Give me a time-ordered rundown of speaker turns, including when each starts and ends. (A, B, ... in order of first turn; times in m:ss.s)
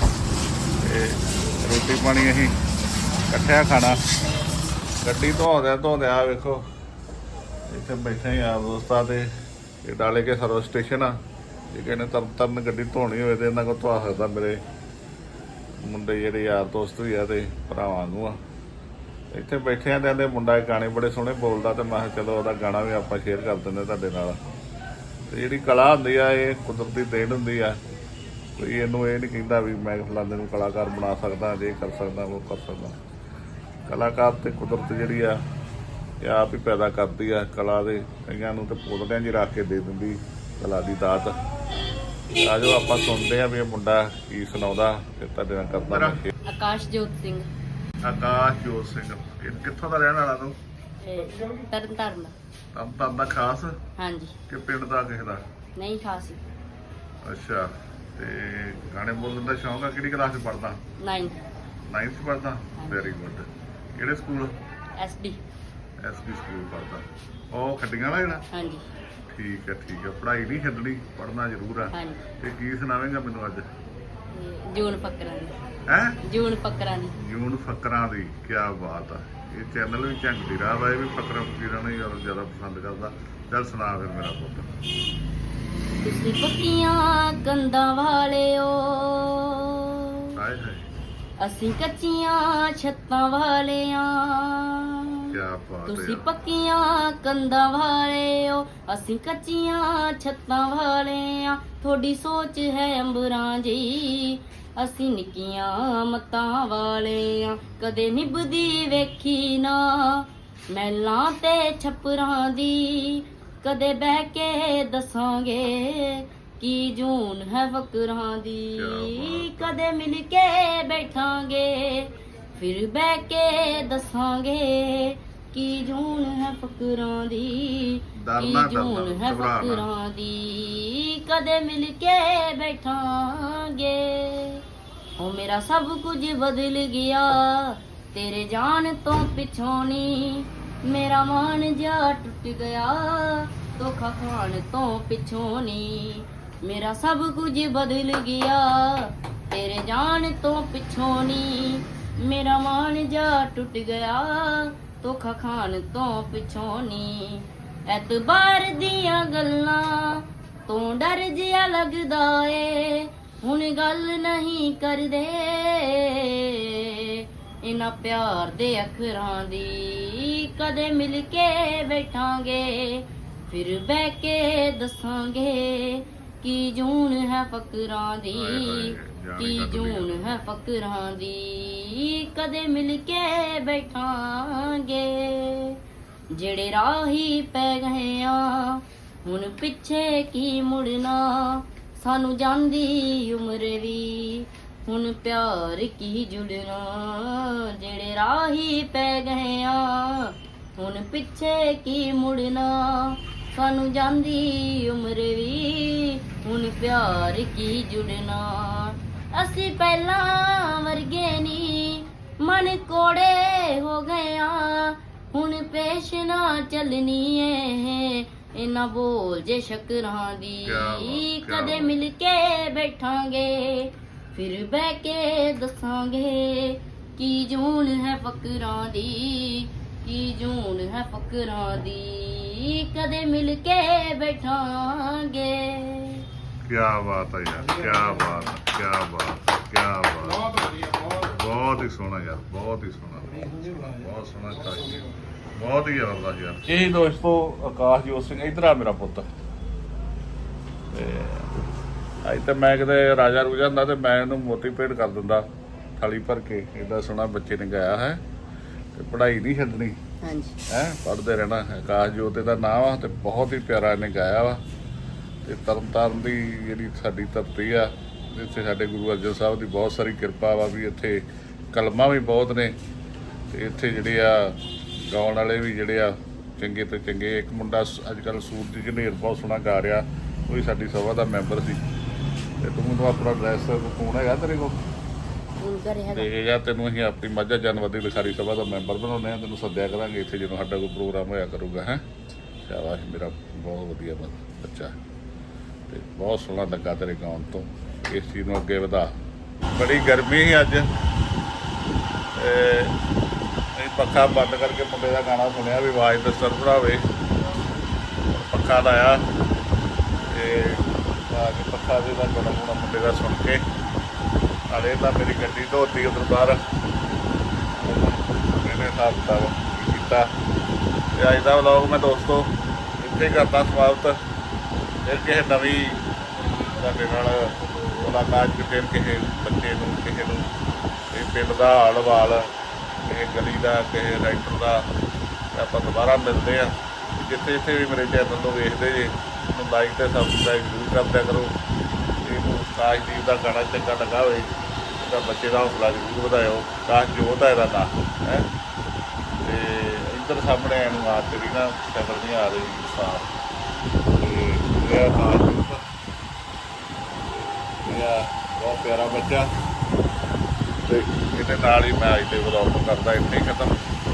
0:00.8-0:02.5 A
0:03.3-0:04.0 A
0:05.0-0:06.6 A
0:07.7-0:09.3 A
0:09.8-0:11.2 A
0:11.7-0:14.6 A
0:15.8-0:18.4 A
0:19.3-0:24.4 A
0:25.3-0:27.8 A
0:28.6-0:33.0 A
0:33.9-0:35.4 A
0:36.2-0:41.4 A
0:42.4-0:46.3 A
0:46.4-0:47.5 B
0:48.0-0:50.6 A
0:51.0-0:52.3 B
0:52.7-0:53.8 A
0:54.0-0:54.4 B
0:54.5-0:55.4 A
0:55.8-0:56.4 B
0:57.2-1:00.8 A
1:01.0-1:01.4 B
1:01.9-1:04.5 A
1:02.8-1:03.1 B
1:05.0-1:05.4 B
1:06.0-1:08.4 A
1:08.5-1:08.9 B
1:09.3-1:13.6 A
1:11.9-1:12.2 B
1:14.3-1:15.5 B
1:15.9-1:16.2 A
1:16.2-1:17.2 B
1:17.1-1:24.7 A
1:26.0-1:30.4 B
1:30.4-1:30.8 A
1:31.4-1:35.3 B
1:35.3-1:36.2 A
1:35.9-2:14.6 B
1:58.7-1:59.8 A
2:08.2-2:09.9 A
2:15.2-3:05.8 B
2:58.3-3:00.4 A
3:06.3-3:56.2 B
3:40.6-3:42.0 A
3:56.6-4:09.3 A
4:10.9-4:11.5 A
4:12.2-4:15.4 A
4:16.0-4:18.2 A
4:18.9-4:20.0 A
4:20.2-4:20.6 B
4:20.7-4:24.6 A
4:25.4-4:32.7 A
4:33.5-4:41.8 A
4:42.6-4:44.7 A
4:45.6-4:46.3 B
4:46.1-4:52.0 A
4:52.6-4:55.0 A
4:55.9-4:59.1 A
4:59.7-5:00.9 A
5:02.4-5:03.0 A
5:03.8-5:07.0 A
5:08.3-5:09.2 A
5:10.3-5:13.6 A
5:14.7-5:16.6 A
5:17.7-5:20.3 A
5:21.1-5:24.2 A
5:25.0-5:26.0 A
5:26.6-5:30.5 A
5:31.1-5:32.4 A
5:33.0-5:34.8 A
5:35.5-5:41.5 A
5:42.2-5:48.5 A
5:49.4-5:53.3 A
5:54.2-5:55.8 A
5:57.2-5:59.5 A
6:00.8-6:03.8 A